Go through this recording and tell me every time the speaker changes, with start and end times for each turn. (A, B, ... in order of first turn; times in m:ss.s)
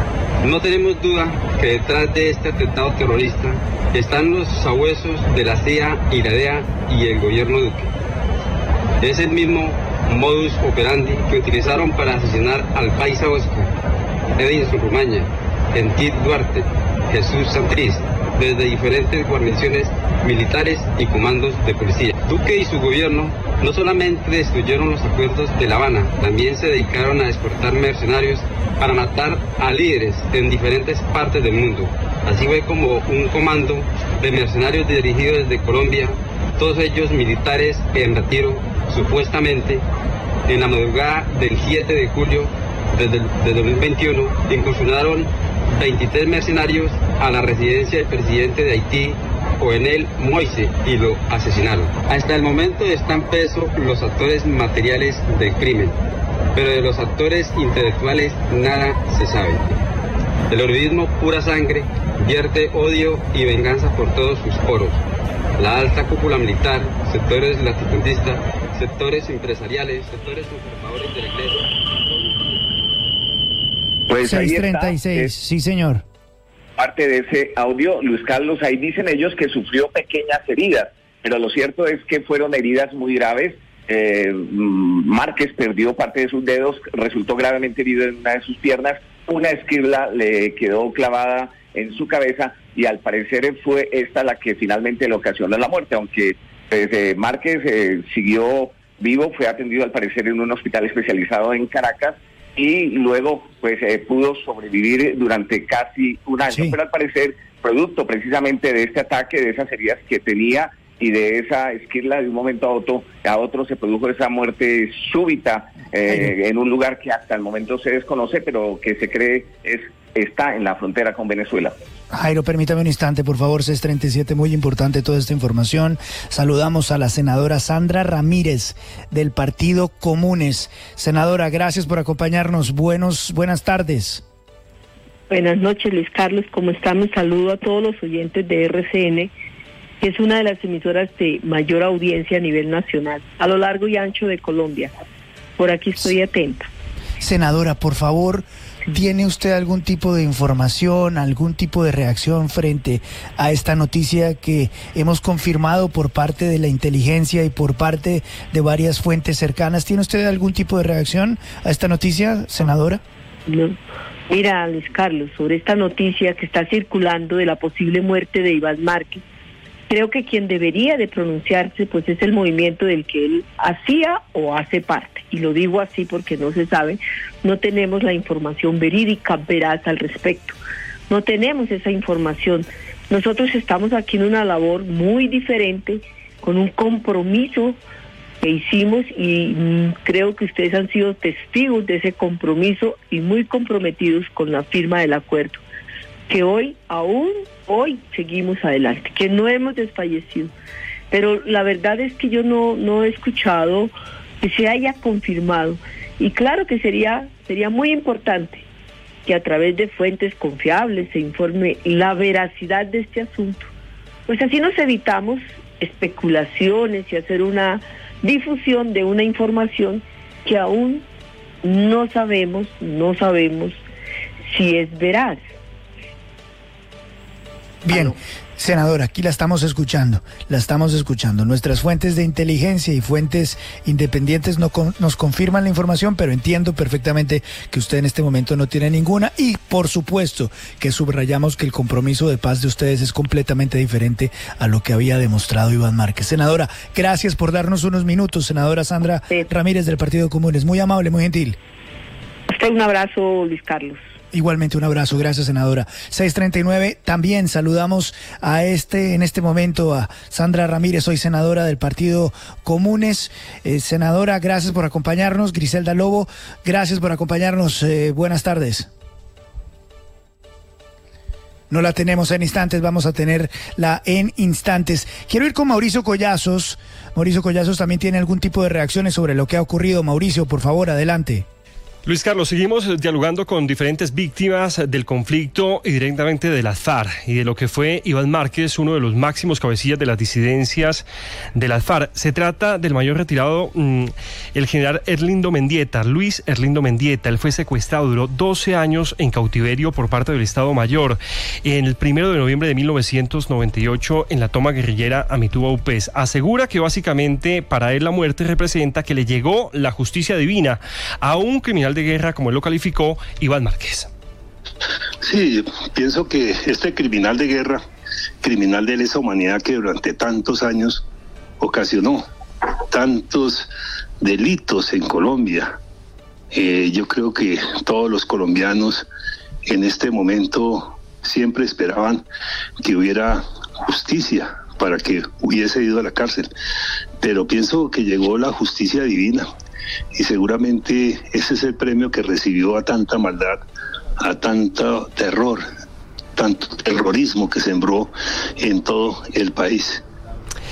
0:00.4-0:07.9 A
0:09.0-0:13.7 A
0:14.4-0:39.8 A
0:40.5-0:56.0 A
0:56.5-0:59.8 A
1:00.5-1:05.0 A
1:05.6-1:11.7 A
1:14.1-1:15.3 B
1:14.2-1:16.0 C
1:16.8-2:01.8 B
1:46.5-1:46.8 C
1:56.1-1:56.3 C
2:02.1-2:14.2 C
2:15.3-2:19.3 D
2:20.0-2:24.9 D
2:25.6-2:26.7 D
2:27.2-2:43.0 C
2:43.5-2:43.8 D
2:44.3-2:49.2 D
2:49.9-3:00.6 D
3:01.1-3:07.8 D
3:08.4-3:15.6 D
3:16.3-3:20.5 D
3:21.1-3:28.7 D
3:29.2-3:33.7 D
3:34.3-3:41.0 D
3:41.6-3:43.8 D
3:44.5-3:45.4 D
3:47.8-4:11.6 C
4:12.5-4:14.0 D
4:14.3-4:28.9 C
4:31.7-4:41.5 C
4:42.1-5:14.1 E
5:15.2-5:17.8 F
5:18.4-5:21.1 F
5:21.6-5:22.3 F
5:22.9-5:23.7 F
5:24.2-5:25.8 F
5:26.5-5:29.1 F
5:29.7-5:32.2 F
5:32.8-5:36.5 F
5:37.2-5:39.5 F
5:40.1-5:43.6 F
5:44.2-5:45.7 F
5:46.4-5:50.0 F